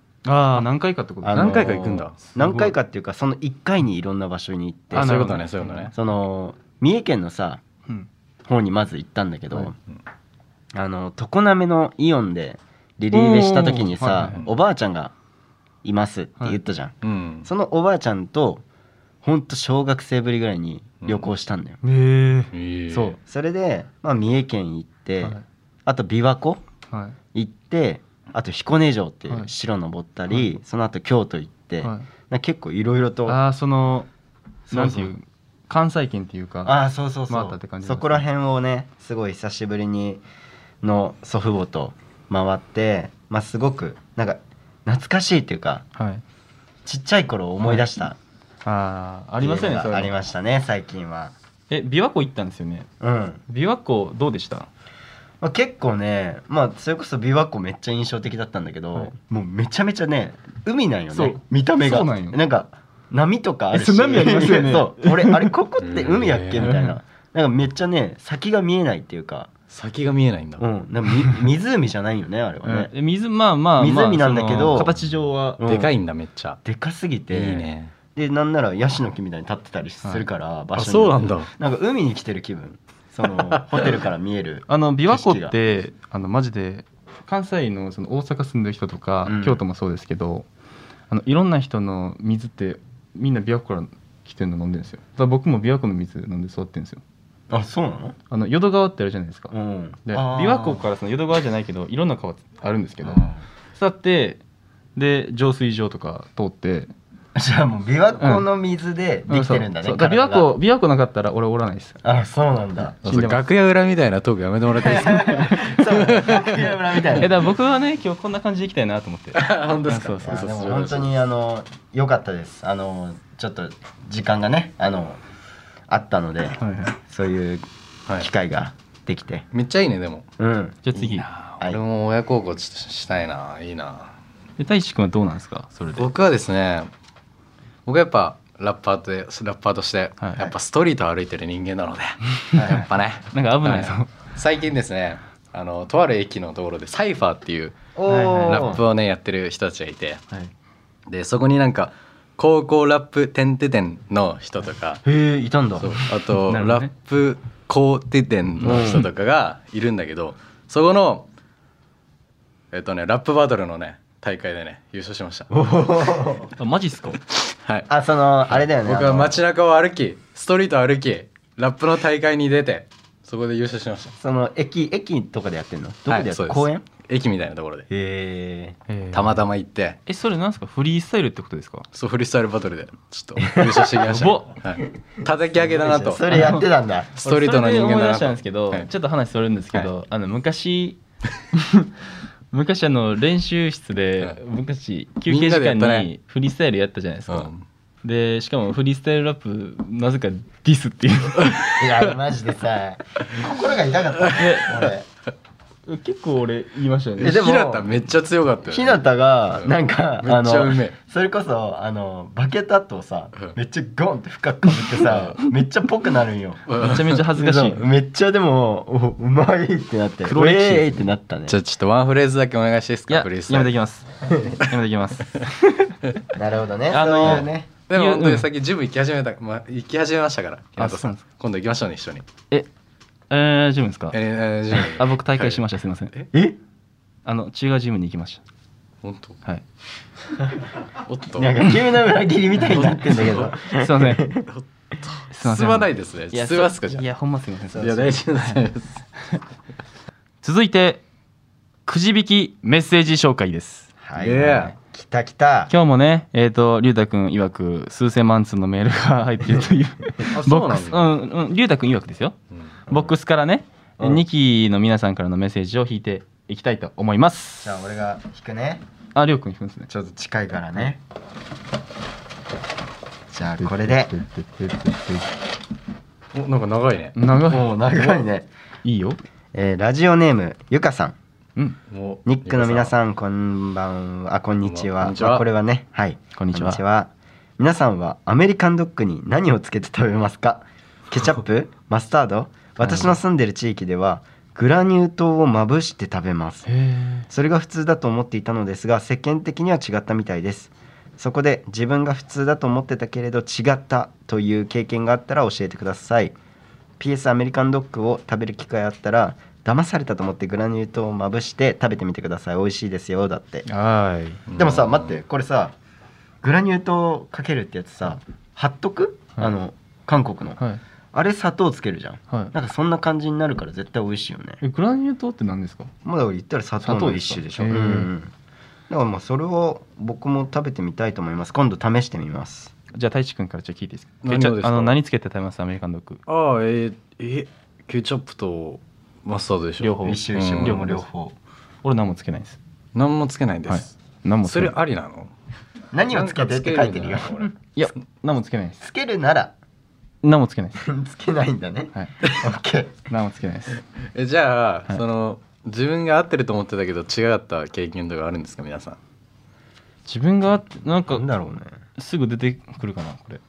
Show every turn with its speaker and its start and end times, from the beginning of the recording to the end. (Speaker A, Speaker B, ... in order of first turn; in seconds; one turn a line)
Speaker A: 0.3-1.6
Speaker B: 1.2-5.2
Speaker C: 1.3-2.2
Speaker A: 2.2-2.7
Speaker A: 4.9-5.9
Speaker C: 4.9-5.9
Speaker B: 5.9-7.6
Speaker B: 8.5-9.8
Speaker B: 10.7-15.1
Speaker A: 13.1-14.4
Speaker B: 15.8-18.6
Speaker C: 17.0-17.5
Speaker B: 19.2-21.8
Speaker C: 21.0-21.3
Speaker A: 21.8-23.2
Speaker C: 22.5-23.2
Speaker B: 23.2-26.6
Speaker A: 26.9-27.2
Speaker B: 27.3-33.4
Speaker A: 33.3-34.1
Speaker B: 34.7-35.1
Speaker A: 34.7-36.8
Speaker B: 36.6-40.2
Speaker A: 37.3-38.2
Speaker B: 40.8-45.9
Speaker A: 46.0-46.2
Speaker B: 46.9-48.2
Speaker A: 48.6-50.1
Speaker B: 49.4-51.3
Speaker A: 51.7-52.9
Speaker B: 53.0-53.4
Speaker A: 53.5-54.7
Speaker B: 55.4-69.5
Speaker A: 61.1-62.4
Speaker A: 63.7-65.5
Speaker C: 65.8-66.9
Speaker C: 69.7-70.7
Speaker B: 70.6-72.9
Speaker A: 72.6-75.6
Speaker B: 73.8-75.0
Speaker B: 75.6-75.9
Speaker C: 75.6-76.6
Speaker B: 76.7-85.5
Speaker C: 77.3-77.9
Speaker C: 80.8-81.5
Speaker A: 84.7-90.5
Speaker B: 89.2-89.6
Speaker A: 91.1-97.0
Speaker B: 97.5-98.2
Speaker A: 98.3-99.5
Speaker B: 99.5-100.9
Speaker A: 100.1-104.4
Speaker A: 105.0-106.9
Speaker B: 107.3-110.5
Speaker A: 108.2-108.5
Speaker A: 109.3-112.0
Speaker B: 112.0-113.0
Speaker A: 112.9-113.4
Speaker C: 113.0-116.6
Speaker B: 114.8-117.3
Speaker A: 117.2-120.3
Speaker C: 119.3-121.1
Speaker B: 120.2-125.2
Speaker B: 125.9-127.6
Speaker A: 126.6-127.0
Speaker B: 128.2-129.5
Speaker C: 129.5-130.3
Speaker B: 130.4-130.9
Speaker A: 130.9-131.3
Speaker C: 130.9-134.2
Speaker A: 134.6-136.1
Speaker C: 136.0-136.9
Speaker C: 137.9-147.8
Speaker A: 140.2-140.5
Speaker B: 142.6-142.9
Speaker A: 143.3-144.1
Speaker B: 148.0-148.8
Speaker A: 148.1-148.8
Speaker C: 148.5-150.2
Speaker C: 151.1-155.0
Speaker B: 155.1-156.0
Speaker C: 155.8-161.3
Speaker A: 156.5-156.9
Speaker B: 158.6-159.1
Speaker C: 162.7-165.5
Speaker B: 165.5-166.5
Speaker A: 166.6-167.2
Speaker B: 167.9-169.4
Speaker C: 168.5-174.1
Speaker B: 174.2-176.8
Speaker C: 176.1-177.9
Speaker B: 177.9-178.8
Speaker A: 178.9-179.4
Speaker C: 179.1-180.0
Speaker A: 180.1-181.9
Speaker C: 181.9-186.2
Speaker A: 184.0-184.6
Speaker B: 185.6-187.1
Speaker A: 186.3-186.7
Speaker C: 187.2-188.9
Speaker A: 187.2-191.0
Speaker A: 191.6-191.9
Speaker A: 192.5-197.5
Speaker C: 195.3-196.1
Speaker C: 197.3-197.6
Speaker A: 198.0-201.8
Speaker B: 201.8-205.1
Speaker A: 204.4-204.6
Speaker A: 205.9-207.4
Speaker C: 207.2-209.0
Speaker B: 207.2-207.9
Speaker B: 208.7-216.8
Speaker C: 209.6-211.0
Speaker C: 216.7-217.2
Speaker A: 216.8-217.9
Speaker B: 217.3-221.6
Speaker A: 220.3-221.0
Speaker C: 221.5-223.7
Speaker A: 223.1-225.9
Speaker B: 226.3-227.7
Speaker A: 226.9-228.5
Speaker C: 227.9-232.2
Speaker A: 230.8-231.2
Speaker A: 233.3-234.2
Speaker C: 234.1-236.2
Speaker A: 234.9-236.1
Speaker B: 236.3-236.6
Speaker A: 237.2-238.4
Speaker C: 239.0-239.4
Speaker C: 241.0-241.6
Speaker B: 241.4-244.5
Speaker C: 242.7-243.5
Speaker A: 243.8-244.2
Speaker C: 244.4-247.1
Speaker A: 245.3-248.6
Speaker C: 247.8-249.0
Speaker A: 250.4-251.0
Speaker A: 251.9-253.9
Speaker B: 254.0-255.7
Speaker C: 254.2-254.8
Speaker A: 255.7-262.4
Speaker C: 260.3-261.1
Speaker C: 262.5-262.8
Speaker A: 262.9-267.7
Speaker B: 264.0-264.2
Speaker B: 267.6-268.8
Speaker A: 269.1-269.9
Speaker B: 269.9-271.0
Speaker B: 273.3-274.1
Speaker A: 273.6-275.3
Speaker C: 276.3-277.1
Speaker A: 277.2-277.7
Speaker B: 277.4-278.5
Speaker A: 278.8-279.2
Speaker B: 279.5-281.2
Speaker C: 281.9-282.9
Speaker B: 282.2-296.7
Speaker C: 284.6-285.5
Speaker A: 286.4-286.8
Speaker A: 292.8-293.2
Speaker A: 296.7-297.3
Speaker B: 297.3-306.4
Speaker B: 307.0-313.7
Speaker A: 313.7-314.4
Speaker C: 314.5-315.1
Speaker B: 314.6-315.7
Speaker B: 316.4-320.6
Speaker B: 321.1-324.6
Speaker A: 324.6-325.9
Speaker B: 326.0-328.3
Speaker A: 326.8-328.1
Speaker B: 328.9-332.7
Speaker A: 332.9-336.2
Speaker C: 334.2-335.0
Speaker C: 336.3-340.8
Speaker A: 339.8-341.1
Speaker B: 340.0-341.4
Speaker A: 341.8-342.6
Speaker C: 342.9-343.9
Speaker A: 343.7-344.8
Speaker C: 344.4-345.3
Speaker B: 345.9-347.5
Speaker C: 346.1-347.5
Speaker A: 347.8-348.8
Speaker B: 348.8-349.6
Speaker A: 350.2-350.8
Speaker B: 350.8-352.9
Speaker A: 353.1-353.7
Speaker C: 354.1-359.0
Speaker A: 360.1-361.3
Speaker B: 361.1-361.8
Speaker A: 362.0-363.4